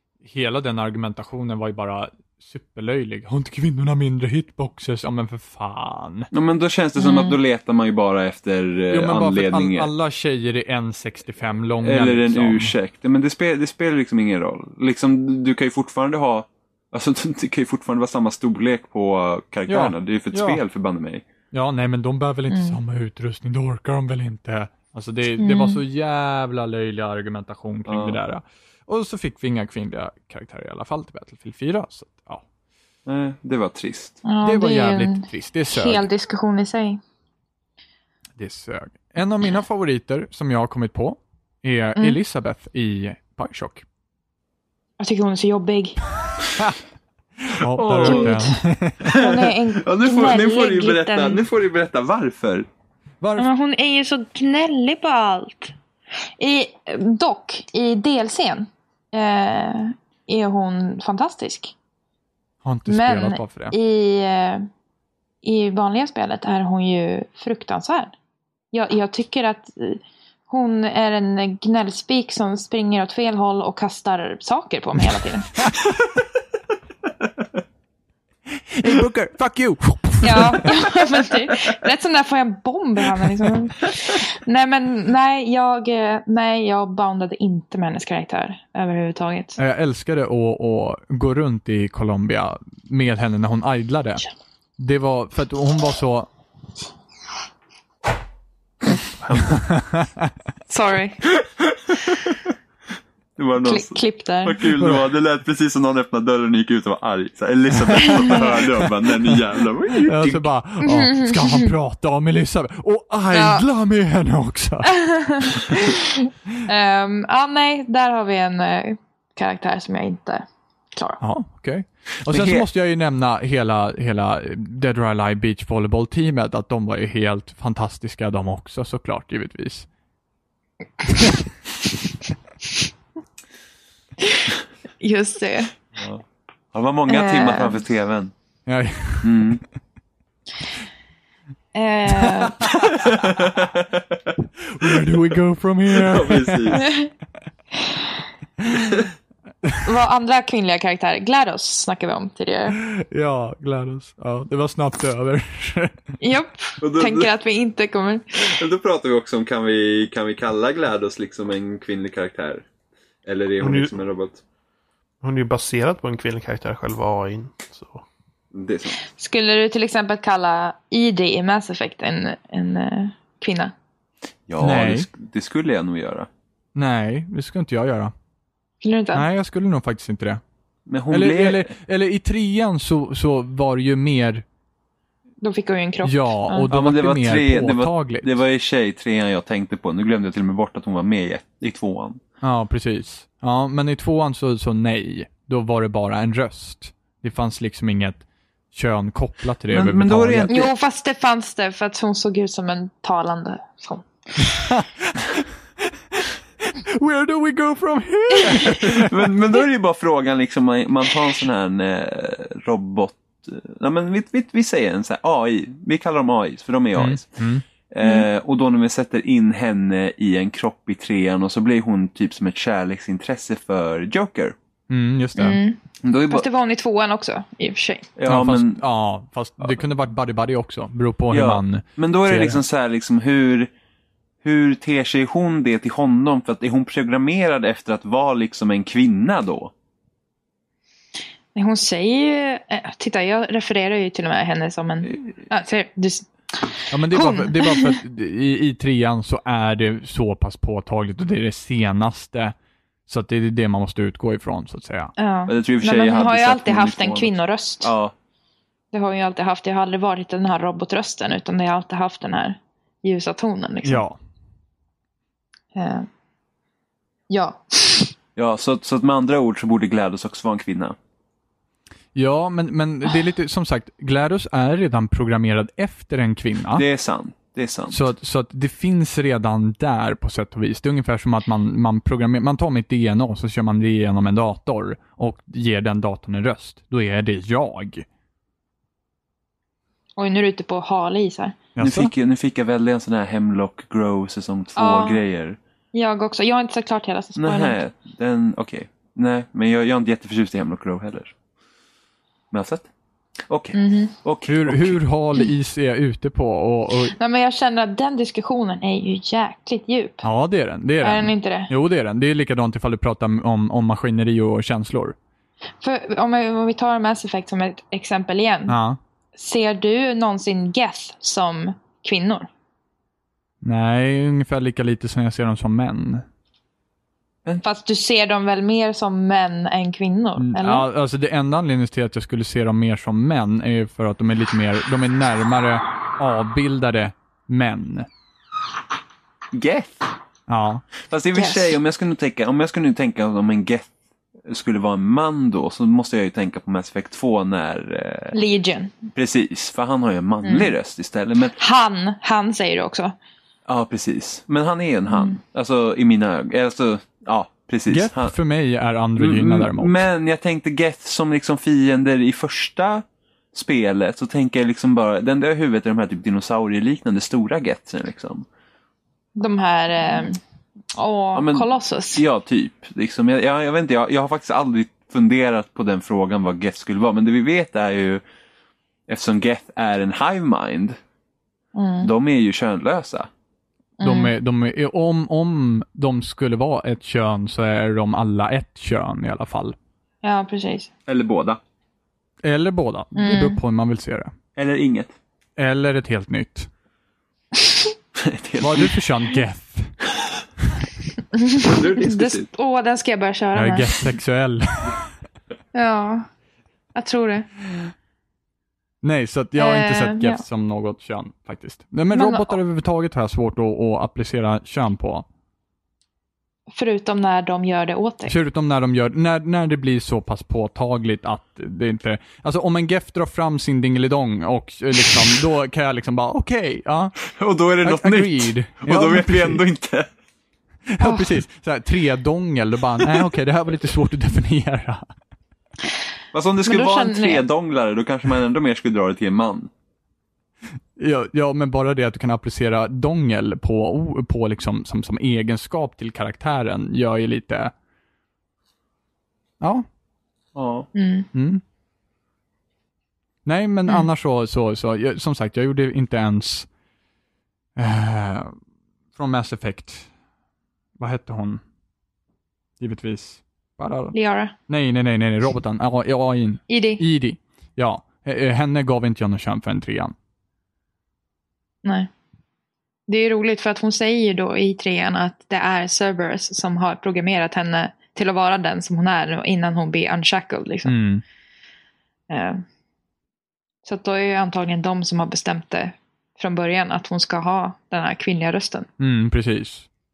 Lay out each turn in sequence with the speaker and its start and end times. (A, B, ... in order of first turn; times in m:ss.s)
0:00.2-0:06.3 A
0:06.3-0:09.9 B
0:07.0-0:07.4 C
0:08.9-0:12.7 A
0:11.8-0:21.2 B
0:19.7-0:20.6 A
0:21.5-0:32.4 A
0:22.5-0:22.8 C
0:25.4-0:25.8 C
0:27.9-0:28.2 B
0:33.0-0:34.2 B
0:34.2-0:37.0 C
0:34.4-0:36.0 A
0:38.4-0:43.8 A
0:45.0-0:46.0 C
0:47.4-0:49.1 A
0:47.8-0:48.4 B
0:48.0-0:51.4 C
0:49.0-0:52.7 B
0:53.2-0:53.5 A
0:53.4-0:55.8 C
0:56.4-1:01.7 C
1:02.6-1:03.8 A
1:02.9-1:04.7 C
1:05.4-1:08.1 C
1:08.7-1:15.7 C
1:18.8-1:20.8 A
1:20.2-1:29.6 C
1:29.6-1:34.2 A
1:34.8-1:36.3 A
1:39.4-1:40.3 A
1:40.7-1:41.2 C
1:41.4-1:42.4 B
1:43.4-1:50.4 B
1:43.6-1:44.6 C
1:44.8-1:45.0 A
1:48.0-1:48.5 C
1:50.0-1:54.9 A
1:50.8-1:51.7 C
1:53.3-1:53.6 C
1:54.9-2:01.2 C
2:01.2-2:09.9 A
2:02.3-2:02.6 B
2:15.0-2:15.7 C
2:16.0-2:16.2 B
2:16.7-2:18.3 B
2:17.1-2:17.8 C
2:18.7-2:19.3 A
2:19.2-2:19.6 B
2:21.7-2:22.7 C
2:22.8-2:24.2 B
2:24.7-2:26.8 A
2:25.9-2:26.8 B
2:26.7-2:27.1 C
2:28.6-2:28.9 A
2:29.8-2:32.8 C
2:32.7-2:35.9 A
2:36.2-2:38.6 C
2:36.8-2:37.3 B
2:38.4-2:42.6 B
2:43.2-2:44.4 B
2:43.6-2:43.9 D
2:45.2-2:48.0 D
2:48.5-2:49.0 B
2:49.1-2:53.7 C
2:54.5-2:56.3 B
2:54.6-2:55.1 A
2:56.7-2:58.1 A
2:58.8-2:59.2 C
2:59.1-3:00.4 A
3:00.9-3:01.7 B
3:01.1-3:04.4 A
3:05.4-3:06.7 C
3:06.0-3:08.4 A
3:06.7-3:12.2 B
3:12.4-3:20.5 A
3:19.7-3:20.7 B
3:20.4-3:24.5 C
3:24.6-3:25.1 A
3:26.2-3:29.1 A
3:28.8-3:37.3 B
3:37.0-3:37.6 A
3:37.9-3:44.5 B
3:38.0-3:38.3 C
3:44.9-3:45.6 A
3:45.4-3:48.1 C
3:46.0-3:46.4 B
3:48.2-3:48.8 B
3:48.2-3:52.6 A
3:51.3-3:53.7 B
3:54.4-3:59.7 B
4:01.5-4:08.0 C
4:05.0-4:05.4 B
4:06.9-4:12.5 A
4:13.1-4:15.1 A
4:15.2-4:17.9 C
4:15.5-4:18.1 B
4:18.9-4:24.0 C
4:23.8-4:24.2 A
4:25.7-4:26.1 C
4:27.3-4:28.1 C
4:28.4-4:31.0 B
4:32.1-4:36.8 A
4:36.7-4:38.0 B
4:37.9-4:48.0 A
4:50.2-4:51.6 C
4:51.8-4:52.1 A
4:51.8-4:55.6 B
4:54.8-4:55.2 C
4:55.9-4:57.8 C
4:57.4-5:01.3 B
5:02.5-5:02.9 B
5:03.5-5:05.0 B
5:03.7-5:04.1 C
5:04.4-5:07.1 A
5:07.2-5:10.2 C
5:10.2-5:15.2 A
5:11.0-5:11.7 C
5:15.8-5:18.7 C
5:18.7-5:19.0 A
5:19.4-5:22.5 C
5:23.6-5:26.2 A
5:27.6-5:30.8 C
5:30.4-5:38.1 A
5:39.5-5:40.0 B
5:40.5-5:40.8 A
5:41.1-5:43.9 B
5:41.3-5:41.8 C
5:44.4-5:48.4 B
5:48.3-5:48.9 C
5:49.1-5:51.5 B
5:50.4-5:50.7 C
5:51.6-5:53.1 C
5:53.7-5:58.3 B
5:55.1-5:55.4 C
5:57.9-6:00.0 A
5:59.2-6:08.4 B
6:09.4-6:10.4 C
6:10.9-6:12.2 C
6:11.3-6:18.2 B
6:19.1-6:21.0 B
6:21.7-6:22.1 C
6:22.0-6:23.3 B
6:24.0-6:24.3 C
6:24.0-6:29.8 A
6:30.2-6:30.9 C
6:31.1-6:31.6 B
6:32.4-6:34.3 A
6:33.1-6:33.6 C
6:34.6-6:35.1 B
6:35.6-6:36.7 A
6:38.2-6:39.0 B
6:38.6-6:39.9 A
6:41.3-6:43.9 C
6:41.6-6:42.5 B
6:43.5-6:45.1 A
6:45.7-6:46.3 C
6:46.9-6:47.5 C
6:49.0-6:55.2 A
6:49.6-6:50.4 C
6:52.1-6:52.6 C
6:56.7-6:58.3 C
6:58.3-7:07.2 A
7:07.3-7:10.1 B
7:07.8-7:09.6 A
7:10.9-7:15.1 A
7:11.0-7:11.4 C
7:16.3-7:19.7 B
7:16.6-7:17.4 C
7:21.0-7:27.7 A
7:29.6-7:29.8 A
7:30.5-7:30.9 B
7:30.9-7:31.3 C
7:31.3-7:31.6 A
7:33.4-7:36.7 A
7:37.8-7:38.6 A
7:39.1-7:40.1 A
7:41.0-7:41.6 A
7:42.8-7:44.2 A
7:44.1-7:44.5 C
7:44.7-7:50.1 A
7:46.7-7:47.0 C
7:51.8-7:52.1 C
7:53.1-8:00.9 C
8:00.8-8:01.2 A
8:02.3-8:02.6 C
8:03.8-8:08.9 C
8:09.0-8:09.9 A